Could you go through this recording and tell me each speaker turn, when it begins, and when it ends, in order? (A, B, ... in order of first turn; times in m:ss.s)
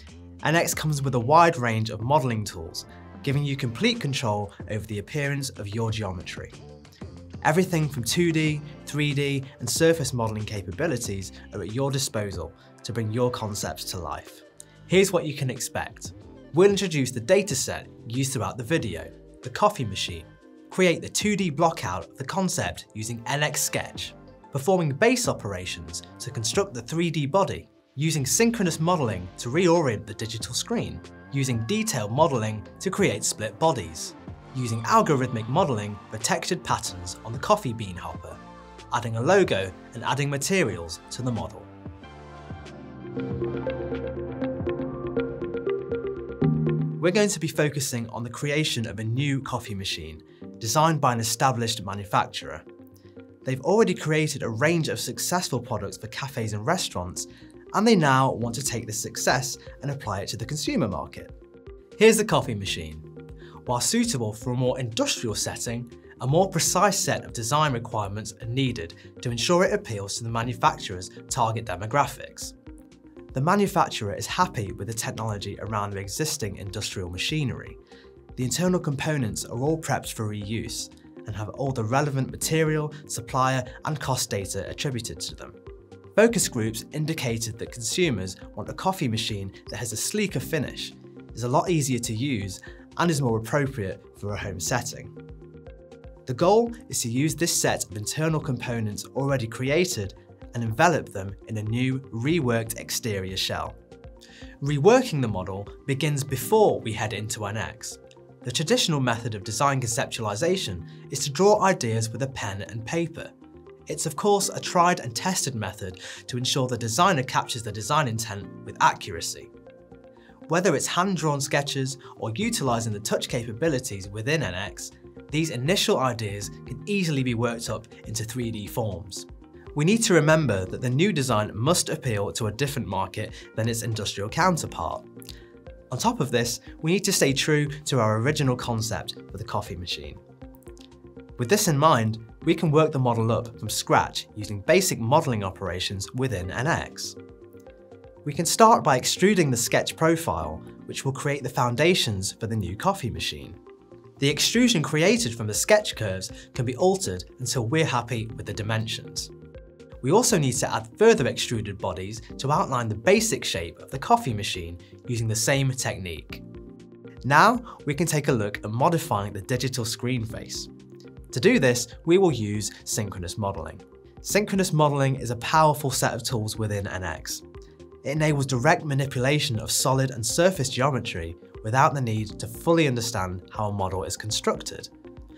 0:00.4-0:06.5 A
0:07.4-0:38.4 A
0:38.9-0:41.7 A
0:47.0-0:52.6 A
0:53.4-1:01.3 A
1:02.0-1:03.1 A
1:03.7-1:12.6 A
1:13.3-1:17.8 A
1:18.4-1:25.6 A
1:26.2-1:35.1 A
1:36.3-1:43.8 A
1:44.6-1:53.3 A
1:53.9-1:59.5 A
2:00.5-2:15.0 A
2:15.9-2:20.2 A
2:21.4-2:27.2 A
2:28.2-2:33.6 A
2:34.2-2:39.3 A
2:40.0-2:46.4 A
2:47.2-2:50.7 A
2:51.3-2:57.4 A
2:58.0-3:04.9 A